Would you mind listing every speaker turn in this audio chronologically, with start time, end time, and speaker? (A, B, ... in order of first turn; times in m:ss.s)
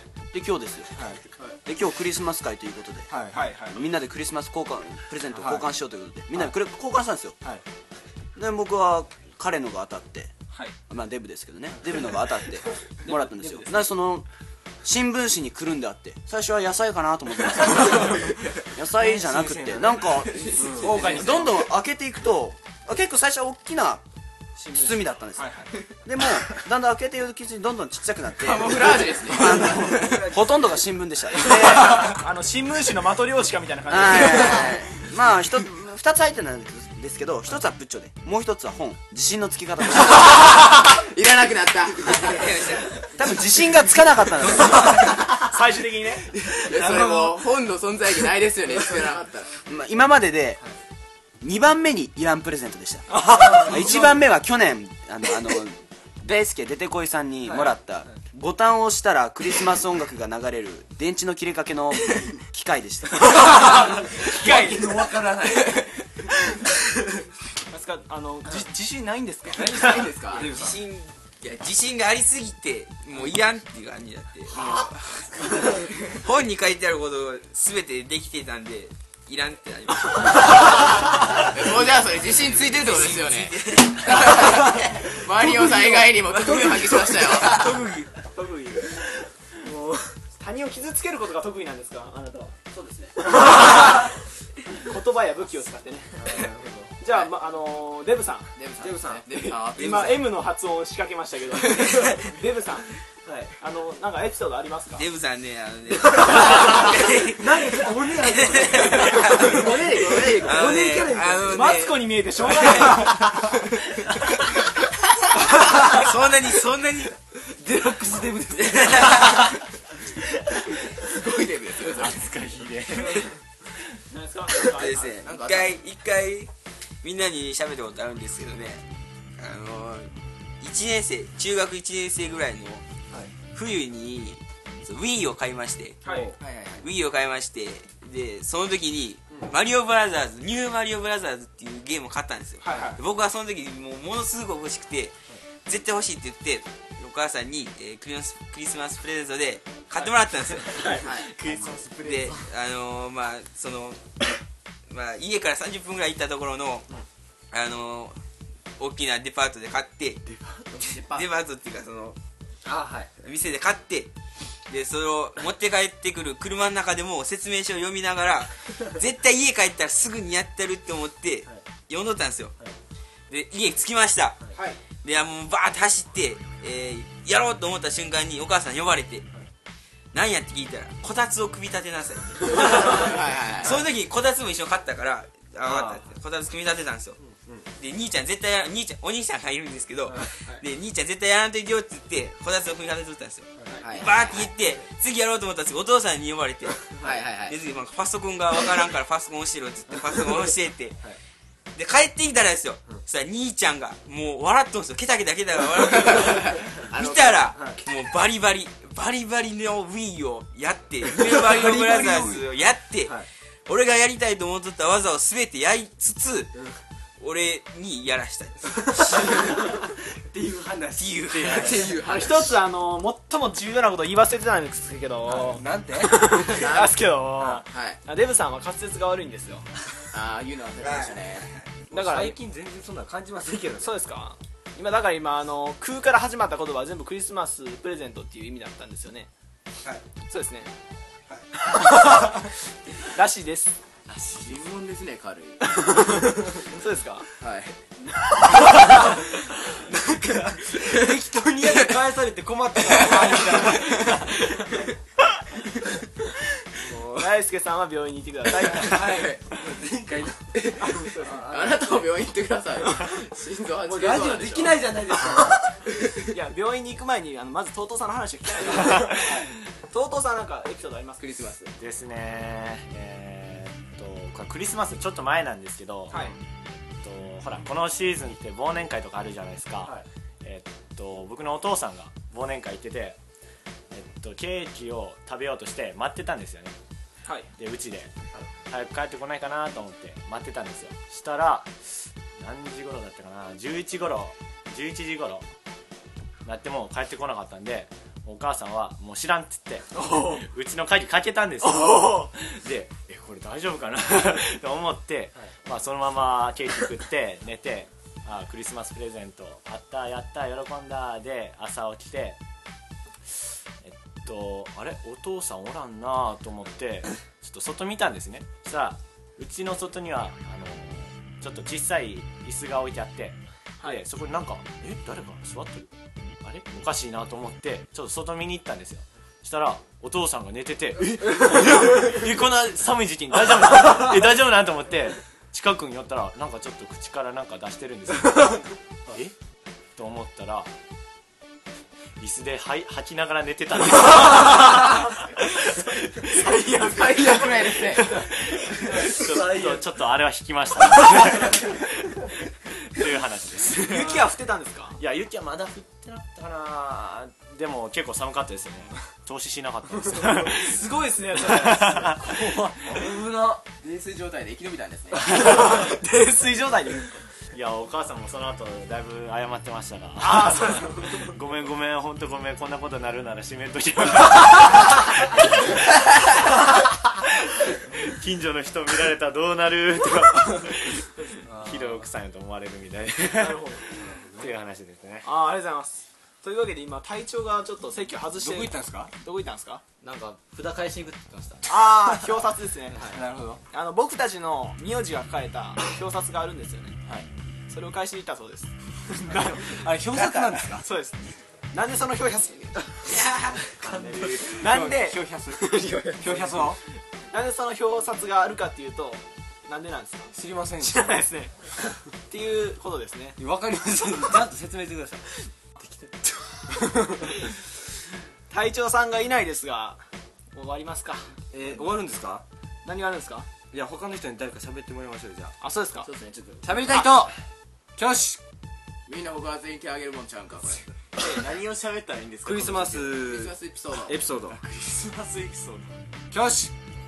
0:00.3-0:01.0 A
0:01.0-0:01.2 B
0:01.7-0:07.4 A
0:03.1-0:03.5 B
0:03.3-0:03.8 C
0:05.3-0:05.7 B
0:08.4-0:10.3 A
0:10.9-0:14.3 A
0:13.1-0:13.9 C
0:14.8-0:24.0 A
0:19.0-0:21.3 B
0:20.3-0:21.5 D
0:24.7-0:32.0 A
0:24.8-0:25.8 C
0:28.4-0:30.2 D
0:31.4-0:34.7 C
0:33.9-0:40.4 A
0:40.3-0:42.4 D
0:42.2-0:42.9 E
0:43.2-0:45.0 A
0:44.4-0:45.4 B
0:45.3-0:46.3 C
0:46.5-0:49.5 D
0:46.6-0:47.4 B
0:49.7-0:50.6 A
0:51.4-1:03.6 A
0:53.3-0:53.8 B
0:57.4-0:58.2 B
1:03.2-1:05.9 B
1:04.2-1:05.1 C
1:05.5-1:05.9 D
1:07.7-1:10.1 C
1:09.6-1:10.5 D
1:09.6-1:10.8 B
1:10.5-1:14.9 E
1:15.5-1:21.5 E
1:20.7-1:27.6 D
1:22.4-1:24.7 E
1:27.3-1:28.2 E
1:28.3-1:29.0 C
1:29.6-1:30.1 B
1:30.4-1:32.6 C
1:33.4-1:34.1 C
1:34.7-1:36.5 C
1:36.2-1:36.9 B
1:37.0-1:38.5 C
1:38.6-1:40.3 D
1:38.8-1:39.6 B
1:39.8-1:42.9 C
1:41.8-1:42.1 D
1:43.3-1:43.5 B
1:43.6-1:45.0 C
1:45.0-1:49.6 E
1:46.7-1:51.8 B
1:48.7-1:53.5 C
1:50.2-1:52.0 E
1:52.6-1:53.2 B
1:55.6-1:56.1 B
1:55.7-1:57.0 D
1:55.9-1:57.1 E
1:57.5-1:59.6 B
1:58.7-1:59.4 E
2:01.1-2:02.2 D
2:02.0-2:03.3 F
2:04.1-2:05.0 C
2:04.6-2:06.5 E
2:05.0-2:05.8 D
2:07.0-2:08.8 E
2:09.4-2:12.8 E
2:13.5-2:16.0 E
2:16.1-2:16.4 B
2:16.4-2:16.8 D
2:16.8-2:25.2 E
2:22.6-2:23.0 C
2:22.7-2:23.0 B
2:25.7-2:31.0 E
2:30.8-2:32.5 G
2:31.0-2:31.3 D
2:32.0-2:34.0 E
2:34.9-2:36.9 E
2:37.5-2:38.2 E
2:38.8-2:40.2 E
2:40.8-2:41.3 D
2:41.1-2:42.2 E
2:42.6-2:43.1 B
2:43.2-2:44.1 E
2:44.7-2:52.6 E
2:53.3-2:54.5 E
2:55.0-2:59.3 E
3:00.1-3:07.2 E
3:02.7-3:03.8 D
3:05.6-3:06.1 B
3:07.2-3:07.7 B
3:07.8-3:16.9 E
3:13.8-3:14.1 D
3:17.0-3:17.6 D
3:17.4-3:21.0 E
3:21.8-3:36.5 E
3:26.0-3:27.5 D
3:27.6-3:27.8 B
3:31.1-3:32.4 B
3:33.0-3:33.3 B
3:37.2-3:39.4 E
3:39.0-3:42.0 B
3:41.0-3:41.8 E
3:41.5-3:42.5 D
3:42.0-3:49.7 C
3:45.2-3:46.6 B
3:46.4-3:47.0 D
3:47.7-3:48.0 D
3:50.1-3:51.5 D
3:51.9-3:52.4 C
3:51.9-3:54.0 B
3:53.8-3:59.3 C
4:00.3-4:00.7 C
4:01.9-4:02.4 C
4:03.1-4:03.8 C
4:04.3-4:05.6 D
4:05.8-4:06.0 C
4:06.6-4:07.3 C
4:07.4-4:07.8 D
4:09.9-4:14.6 B
4:13.0-4:13.4 D
4:16.8-4:17.3 B
4:17.2-4:19.3 C
4:18.5-4:21.8 B
4:18.8-4:19.4 D
4:20.5-4:24.9 D
4:20.8-4:21.5 C
4:23.8-4:25.7 B
4:26.3-4:31.2 C
4:28.8-4:29.5 B
4:31.2-4:31.7 D
4:31.8-4:43.2 F
4:43.9-4:46.8 F
4:47.6-4:48.1 F
4:48.7-4:51.8 F
4:52.4-4:55.5 F
4:56.4-5:12.4 F
5:13.3-5:25.9 F
5:26.4-5:38.6 F
5:40.0-5:40.7 F
5:42.2-5:46.6 F
5:46.7-5:48.1 D
5:48.6-5:51.6 F
5:52.9-5:54.2 F
5:53.8-5:55.0 C
5:55.0-6:00.8 F
6:00.4-6:02.3 C
6:01.4-6:02.3 F
6:02.8-6:03.6 B
6:03.8-6:05.3 D
6:05.2-6:07.2 C
6:07.5-6:15.2 F
6:10.2-6:11.3 C
6:18.0-6:21.0 F
6:21.5-6:22.0 B
6:21.6-6:23.8 F
6:23.2-6:23.8 C
6:24.0-6:24.5 B
6:24.4-6:25.3 F
6:25.2-6:29.8 C
6:28.4-6:29.1 B
6:30.0-6:31.7 H
6:31.7-6:33.1 C
6:32.9-6:33.2 H
6:33.0-6:33.6 B
6:33.7-6:37.0 C
6:37.7-6:39.9 C
6:39.3-6:40.9 B
6:40.8-6:43.0 C
6:43.2-6:43.5 E
6:43.8-6:44.6 G
6:43.8-6:46.8 B
6:44.1-6:44.5 H
6:44.5-6:45.2 C
6:45.6-6:46.4 H
6:47.3-6:51.8 C
6:50.3-6:51.3 B
6:52.3-6:53.4 C
6:53.4-6:55.2 B
6:55.9-6:57.4 B
6:58.5-7:00.0 C
7:00.5-7:01.3 C
7:01.5-7:02.4 B
7:02.8-7:03.5 C
7:03.7-7:05.5 B
7:05.6-7:06.1 C
7:06.0-7:07.0 D
7:06.6-7:07.4 B
7:08.0-7:08.4 B
7:09.1-7:10.8 D
7:11.2-7:13.1 G
7:12.4-7:13.5 B
7:13.1-7:14.2 D
7:14.1-7:14.6 B
7:14.5-7:16.0 G
7:16.3-7:16.7 B